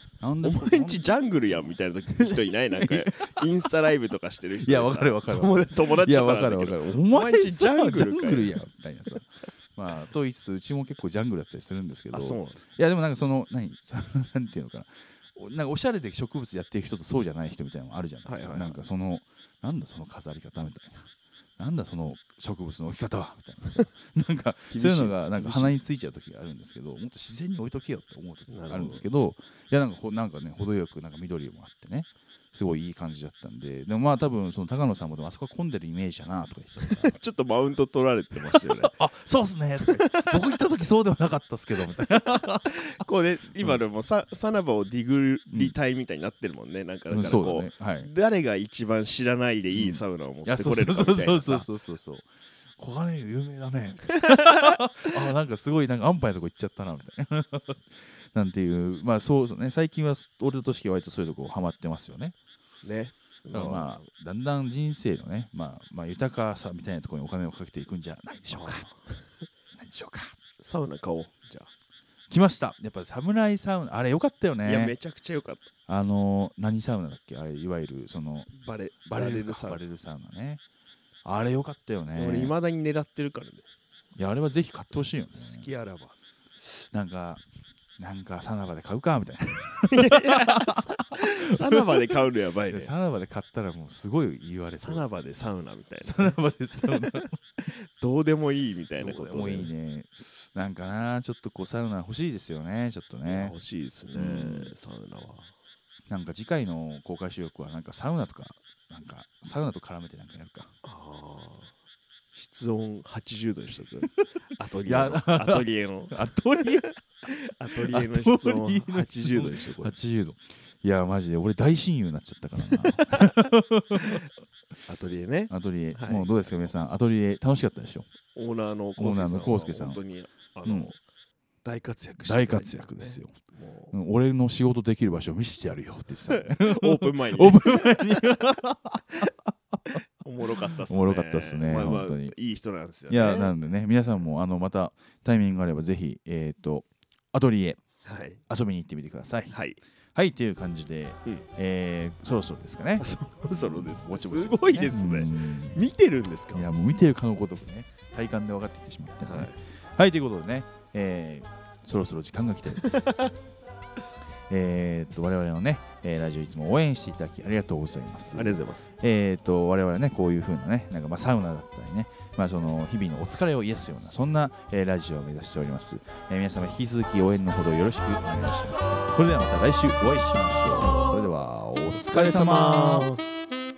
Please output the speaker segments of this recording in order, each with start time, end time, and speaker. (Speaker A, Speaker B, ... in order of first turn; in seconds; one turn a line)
Speaker A: 0.2-3.5
Speaker B: 0.4-8.6
Speaker A: 4.6-37.1
Speaker B: 12.1-12.6
Speaker B: 18.2-18.8
Speaker B: 24.7-25.9
Speaker B: 28.5-29.0
Speaker B: 36.9-39.0
Speaker A: 38.5-43.0
Speaker B: 39.9-40.4
Speaker B: 41.9-51.7
Speaker A: 47.1-48.1
Speaker A: 49.7-62.3
Speaker B: 54.2-54.8
Speaker B: 62.8-64.0
Speaker A: 63.5-68.9
Speaker B: 68.5-69.4
Speaker A: 69.8-70.3
Speaker B: 70.6-71.7
Speaker A: 72.3-75.0
Speaker B: 74.7-75.7
Speaker A: 75.9-78.5
Speaker B: 78.5-79.8
Speaker A: 79.0-80.6
Speaker A: 81.2-82.5
Speaker B: 82.2-83.7
Speaker A: 84.2-85.7
Speaker B: 85.0-86.2
Speaker A: 86.6-87.4
Speaker A: 88.0-92.1
Speaker B: 89.9-92.9
Speaker A: 92.7-95.0
Speaker B: 94.7-99.7
Speaker A: 96.0-97.3
Speaker A: 99.0-103.5
Speaker B: 103.2-105.5
Speaker A: 104.1-104.7
Speaker A: 106.1-110.7
Speaker B: 110.8-111.7
Speaker B: 112.3-116.1
Speaker A: 114.8-117.0
Speaker B: 116.7-119.9
Speaker A: 117.8-124.3
Speaker B: 122.7-123.5
Speaker B: 124.9-126.7
Speaker A: 125.5-128.1
Speaker B: 128.3-131.0
Speaker A: 129.0-130.0
Speaker A: 130.7-130.9
Speaker B: 131.6-133.9
Speaker A: 132.2-133.3
Speaker A: 133.9-140.0
Speaker B: 136.3-138.6
Speaker B: 140.2-143.5
Speaker A: 140.7-142.3
Speaker A: 143.1-147.9
Speaker B: 148.0-148.4
Speaker A: 148.5-149.6
Speaker B: 149.5-149.8
Speaker A: 150.1-155.8
Speaker B: 153.0-156.7
Speaker A: 156.5-163.2
Speaker B: 159.2-159.6
Speaker B: 162.8-163.3
Speaker A: 164.5-183.1
Speaker B: 168.3-168.9
Speaker B: 181.9-183.2